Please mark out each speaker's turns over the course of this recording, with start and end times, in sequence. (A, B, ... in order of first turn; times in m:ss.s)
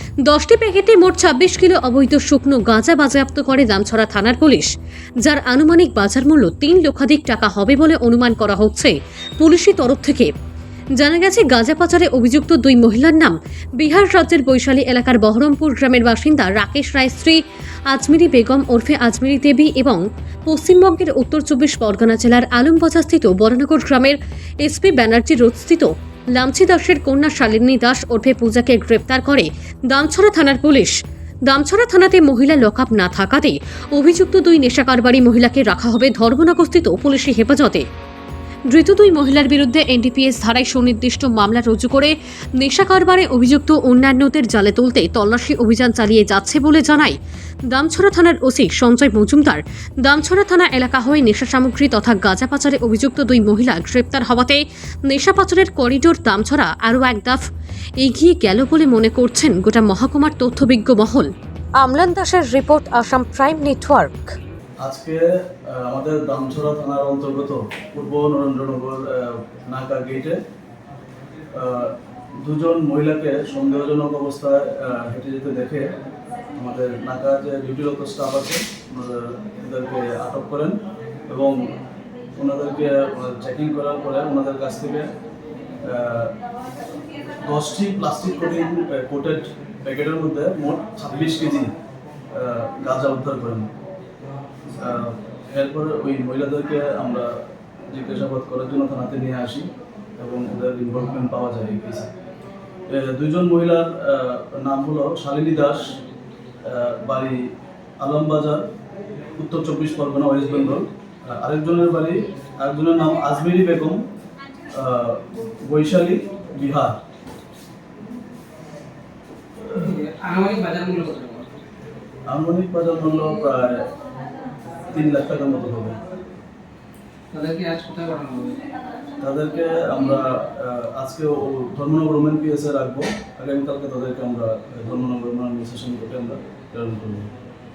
0:00.3-0:04.7 A
0:05.2-0:10.3 A
0:11.0-0:30.9 A
0:31.5-0:37.8 A
0:38.7-0:47.2 A
0:47.7-0:57.4 A
0:58.0-1:04.3 A
1:04.8-1:10.4 B
1:11.6-1:15.9 B
1:16.6-1:20.8 B
1:21.3-1:21.7 B
1:22.4-1:25.1 B
1:25.8-1:26.4 B
1:27.5-1:31.7 B
1:32.3-1:33.7 B
1:34.7-1:37.3 B
1:37.9-1:42.1 B
1:42.9-1:46.0 B
1:46.6-1:47.4 B
1:48.0-1:48.6 B
1:49.4-1:54.0 B
1:54.7-1:57.0 B
1:59.7-2:01.6 C
2:02.3-2:03.9 B
2:04.9-2:06.0 B
2:07.3-2:08.6 C
2:09.2-2:17.3 B